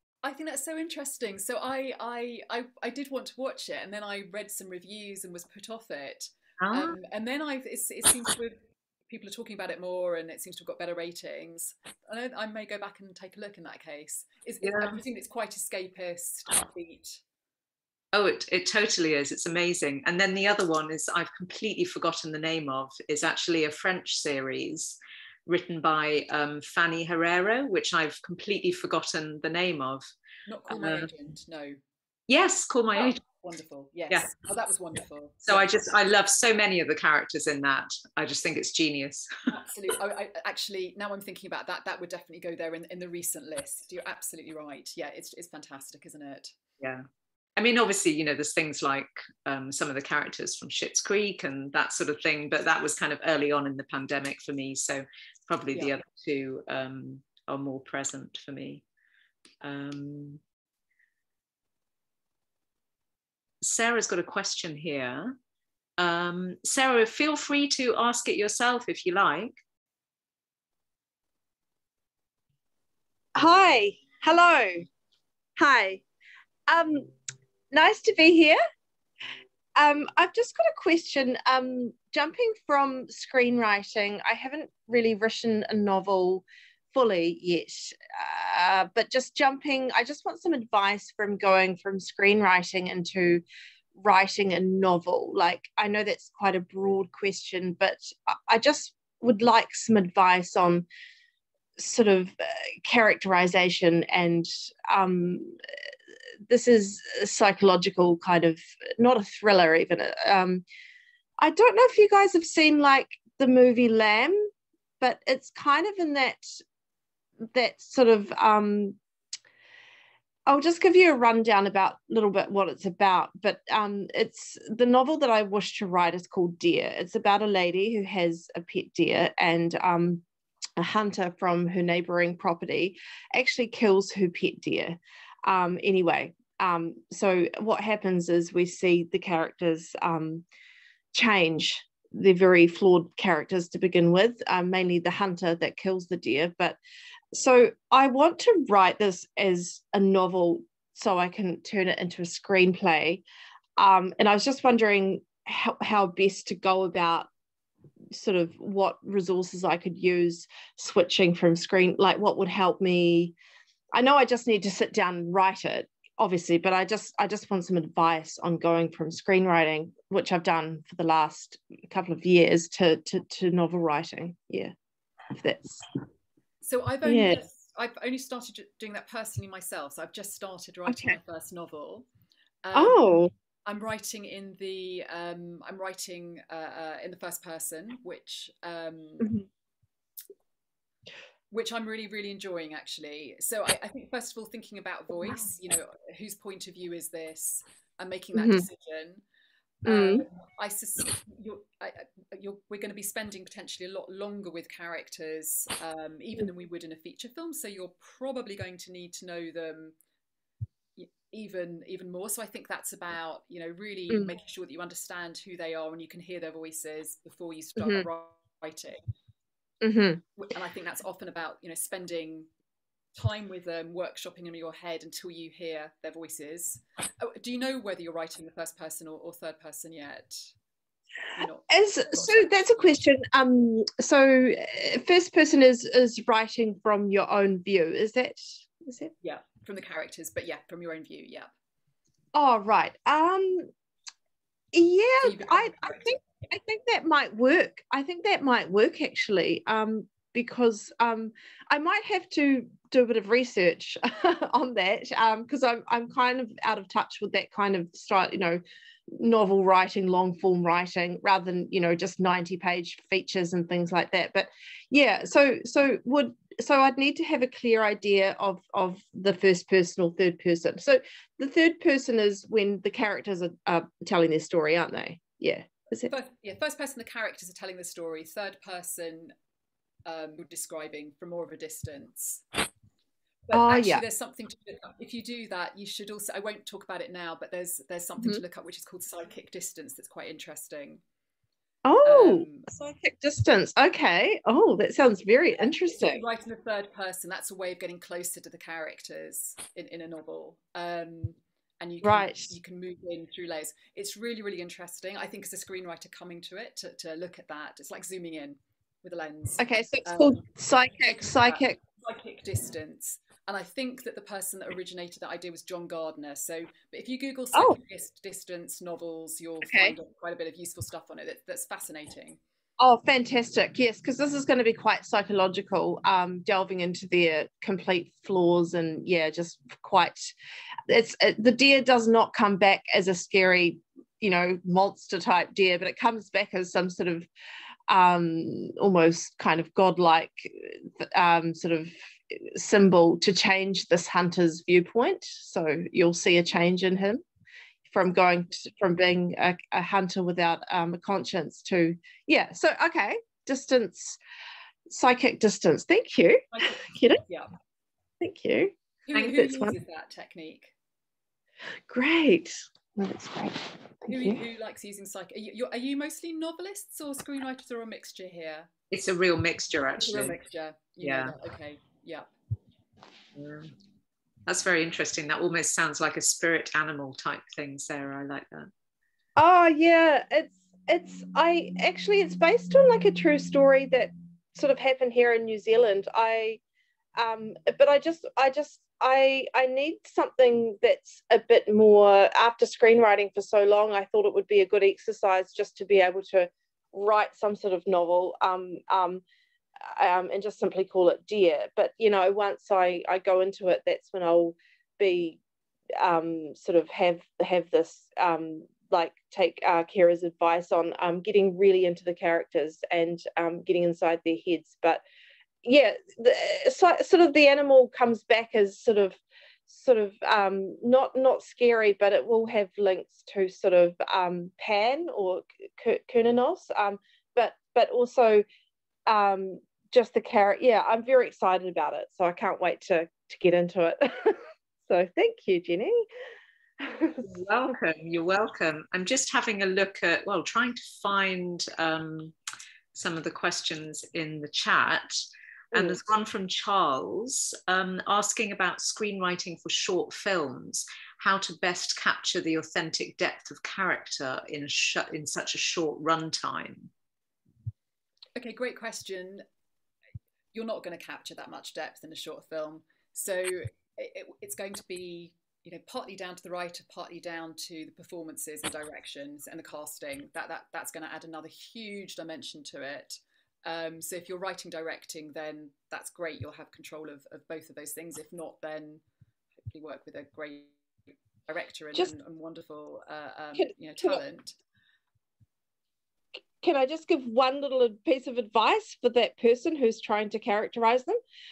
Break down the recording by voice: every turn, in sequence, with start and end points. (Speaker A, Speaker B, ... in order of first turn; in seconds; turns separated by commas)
Speaker A: 0.2-17.2, Speaker B: 6.6-7.0, Speaker B: 14.6-15.0, Speaker B: 18.1-30.1, Speaker A: 30.5-31.8, Speaker B: 30.7-31.1, Speaker B: 32.3-33.2, Speaker A: 33.0-35.7, Speaker B: 35.5-39.3, Speaker A: 39.5-46.5, Speaker B: 46.8-58.8, Speaker B: 59.6-60.4, Speaker B: 63.6-65.4, Speaker B: 66.0-69.6, Speaker C: 73.4-74.9, Speaker C: 75.6-76.0, Speaker C: 76.7-77.1, Speaker C: 77.7-78.6, Speaker C: 79.8-93.4, Speaker C: 94.0-100.9, Speaker C: 101.8-105.6, Speaker C: 106.5-110.6, Speaker C: 111.4-114.5, Speaker C: 115.0-116.5, Speaker C: 117.5-119.0, Speaker C: 120.5-130.2, Speaker C: 130.8-140.4, Speaker C: 141.1-146.8, Speaker C: 147.3-153.2, Speaker C: 153.8-157.3, Speaker C: 158.1-163.3, Speaker C: 163.9-174.8, Speaker C: 175.3-175.8, Speaker A: 176.6-182.1, Speaker C: 177.0-177.4, Speaker C: 180.9-181.2, Speaker A: 182.6-183.1, Speaker C: 182.7-183.3, Speaker A: 183.7-189.3, Speaker C: 189.2-189.4, Speaker A: 191.5-199.2, Speaker C: 198.3-198.7, Speaker C: 199.9-200.2, Speaker A: 199.9-209.9, Speaker A: 211.0-219.0, Speaker C: 217.8-218.1, Speaker C: 219.8-220.2, Speaker A: 220.4-222.5, Speaker A: 223.2-230.5, Speaker A: 231.3-232.9, Speaker C: 231.7-239.1, Speaker A: 239.2-241.5, Speaker C: 242.3-243.7, Speaker C: 244.7-258.6, Speaker A: 245.2-246.2, Speaker C: 259.1-276.1, Speaker A: 276.1-279.3, Speaker A: 280.1-282.4, Speaker A: 283.5-291.0, Speaker C: 283.5-284.0, Speaker C: 291.9-296.2, Speaker A: 292.1-292.7, Speaker A: 295.9-310.5, Speaker C: 302.0-302.6, Speaker C: 309.6-311.8, Speaker A: 311.0-322.4, Speaker C: 319.6-320.0, Speaker C: 322.8-330.3, Speaker C: 330.9-337.3, Speaker C: 337.9-347.2, Speaker C: 347.9-354.2, Speaker C: 354.9-357.2, Speaker A: 356.5-357.5, Speaker C: 358.2-359.8, Speaker A: 359.1-360.7, Speaker C: 361.9-364.4, Speaker A: 364.1-368.7, Speaker B: 368.9-370.4, Speaker A: 370.0-372.3, Speaker B: 371.0-371.3, Speaker B: 373.4-373.7, Speaker B: 374.5-378.7, Speaker C: 379.4-386.6, Speaker C: 387.2-399.2, Speaker C: 399.9-405.4, Speaker C: 406.0-415.0, Speaker C: 415.6-428.4, Speaker C: 429.1-436.1, Speaker C: 436.8-437.2, Speaker B: 437.2-442.4, Speaker B: 442.9-456.9, Speaker A: 458.4-459.4, Speaker A: 460.5-479.0, Speaker A: 479.7-480.8, Speaker A: 481.5-484.6, Speaker C: 483.6-484.2, Speaker C: 486.6-491.2